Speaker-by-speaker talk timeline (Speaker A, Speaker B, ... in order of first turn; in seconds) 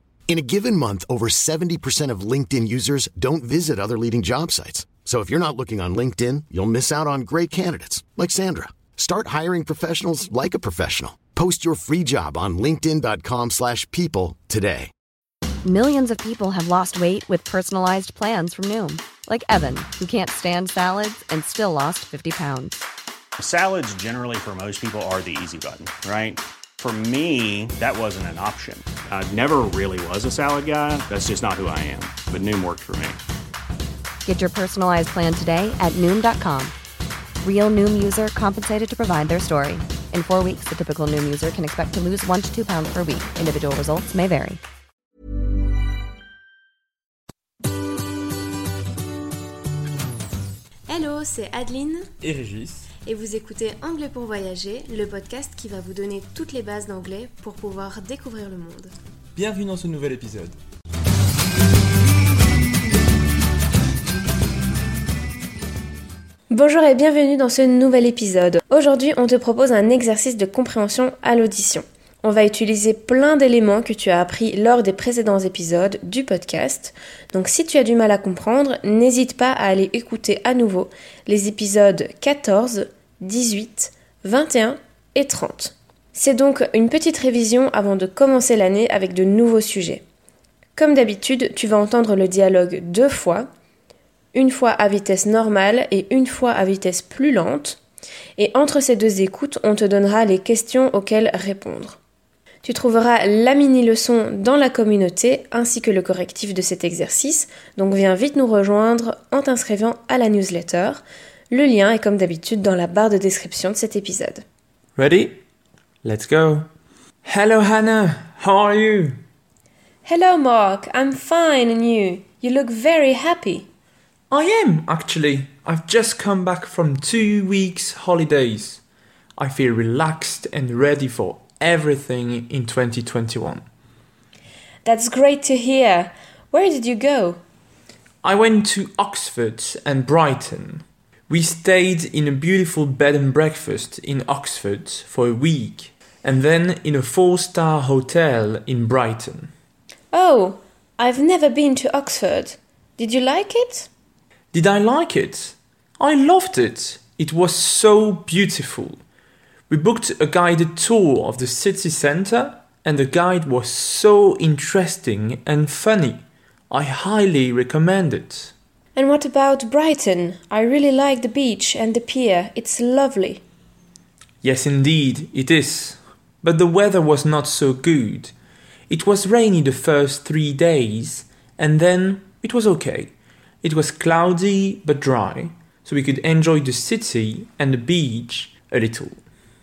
Speaker A: 0.3-14.9
Speaker B: 15.6-22.8, 34.3-36.7, 37.4-44.6
Speaker C: 23.4-33.2
Speaker D: 50.9-52.1, 53.0-58.9, 66.5-90.0, 90.8-93.5, 94.3-97.8, 98.4-102.0, 102.6-114.4, 120.0-123.7, 134.8-137.4, 150.1-153.9, 168.9-173.4
Speaker E: 52.2-52.9, 59.4-60.6, 115.0-115.4, 116.0-116.7, 117.2-119.2, 124.3-128.8, 129.4-133.6, 138.2-149.5, 154.5-159.0, 159.7-168.5, 174.4-178.3, 178.9-189.2